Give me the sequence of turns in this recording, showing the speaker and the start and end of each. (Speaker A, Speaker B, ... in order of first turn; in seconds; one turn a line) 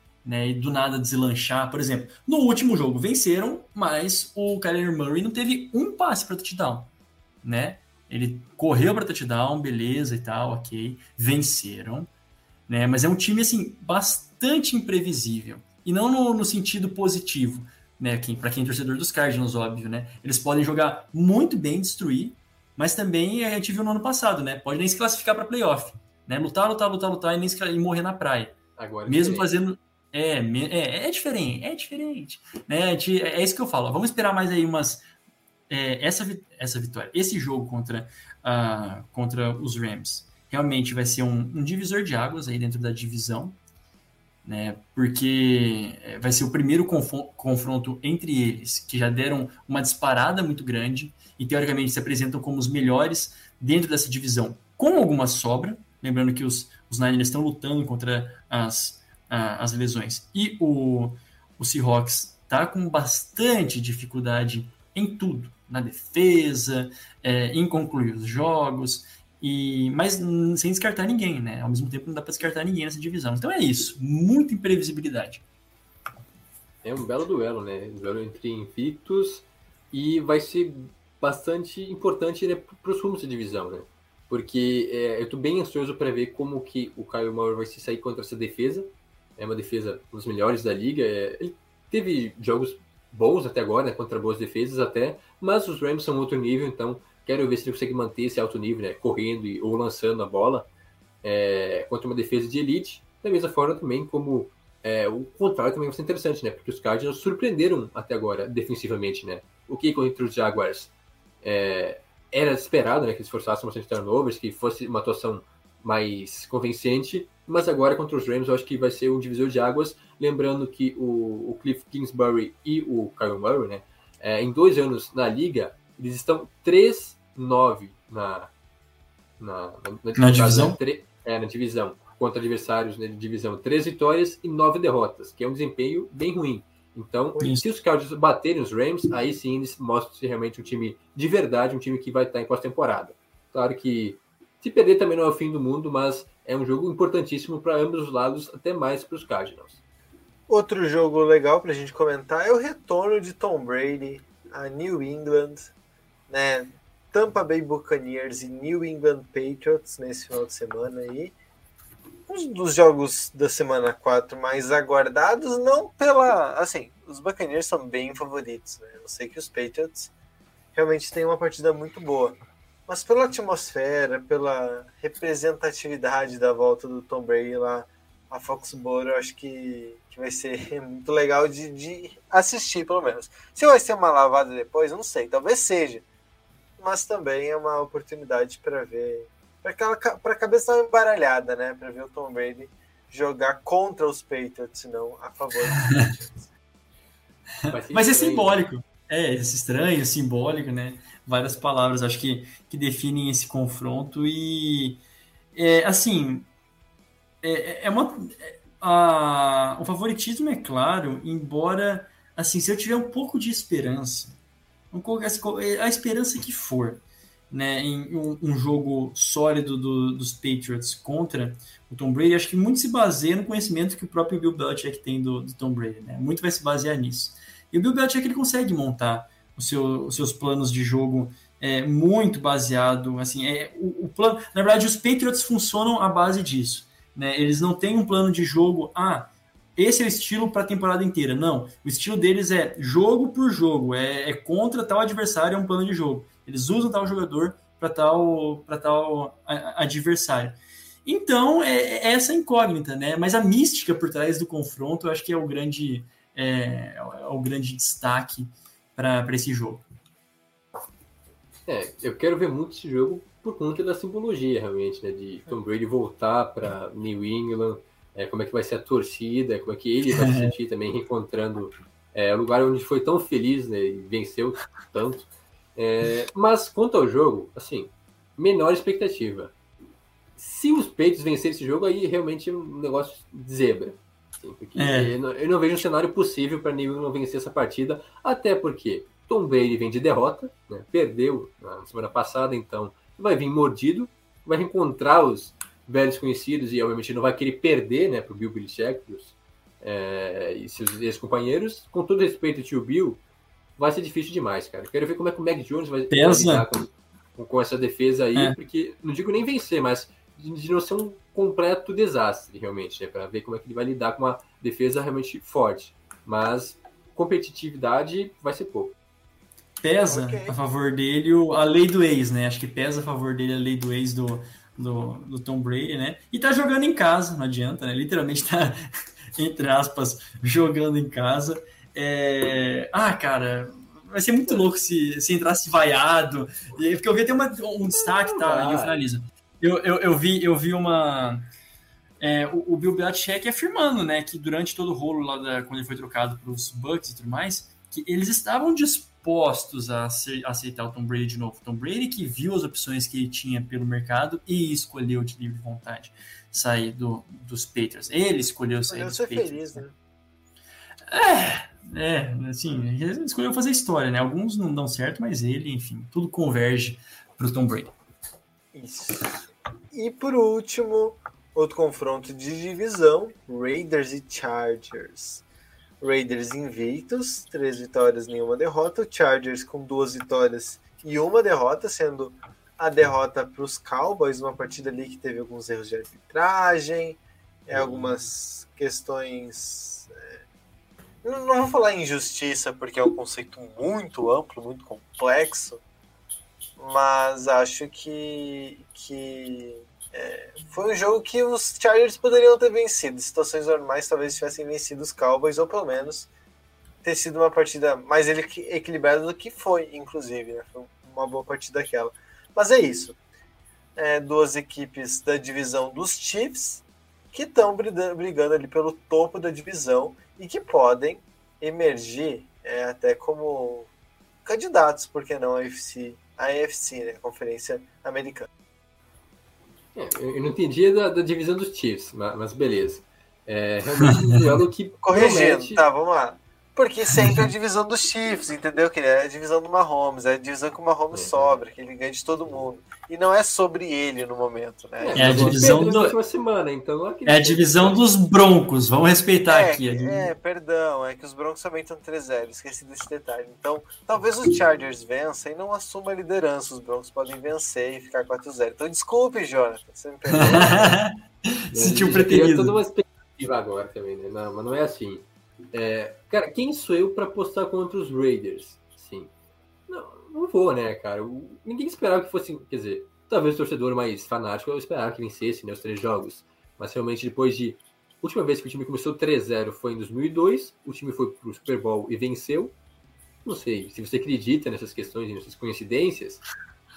Speaker A: 0.2-6.9
Speaker A: 7.4-12.1
Speaker A: 12.7-28.6
Speaker B: 28.8-29.5
Speaker A: 29.1-35.0
Speaker A: 35.7-43.6
Speaker A: 44.4-75.4
Speaker B: 76.8-100.7
Speaker B: 101.2-128.5
Speaker B: 129.4-149.8
Speaker A: 130.1-130.8
Speaker C: 150.5-155.7
Speaker C: 156.3-161.3
Speaker C: 162.3-170.1
Speaker C: 170.7-186.0
Speaker C: 186.8-196.3
Speaker A: 197.6-205.0
Speaker B: 197.7-198.7
Speaker A: 205.5-206.5
Speaker A: 207.4-214.4
Speaker A: 214.9-259.8
Speaker B: 261.7-279.5
Speaker A: 270.1-270.5
Speaker B: 280.4-303.2
Speaker A: 284.8-285.1
Speaker B: 303.8-318.9
Speaker A: 306.1-306.7
Speaker A: 319.8-341.4
Speaker C: 320.1-320.5
Speaker B: 337.9-339.0
Speaker A: 342.2-359.8
Speaker C: 358.9-359.9
Speaker A: 361.1-367.9
Speaker C: 368.7-369.2
Speaker C: 369.9-375.4
Speaker C: 376.0-390.3
Speaker B: 387.7-388.2
Speaker C: 391.2-395.8
Speaker C: 396.8-406.3
Speaker C: 407.0-413.2
Speaker C: 413.9-423.9
Speaker C: 424.4-428.5
Speaker B: 429.9-435.8
Speaker A: 434.0-434.4
Speaker C: 435.0-445.6
Speaker B: 441.1-441.6
Speaker B: 445.0-448.0
Speaker A: 445.1-446.1
Speaker A: 447.2-450.3
Speaker C: 449.5-460.9
Speaker A: 460.3-462.8
Speaker B: 460.3-460.7
Speaker B: 461.7-469.3
Speaker B: 469.9-482.7
Speaker B: 483.4-486.4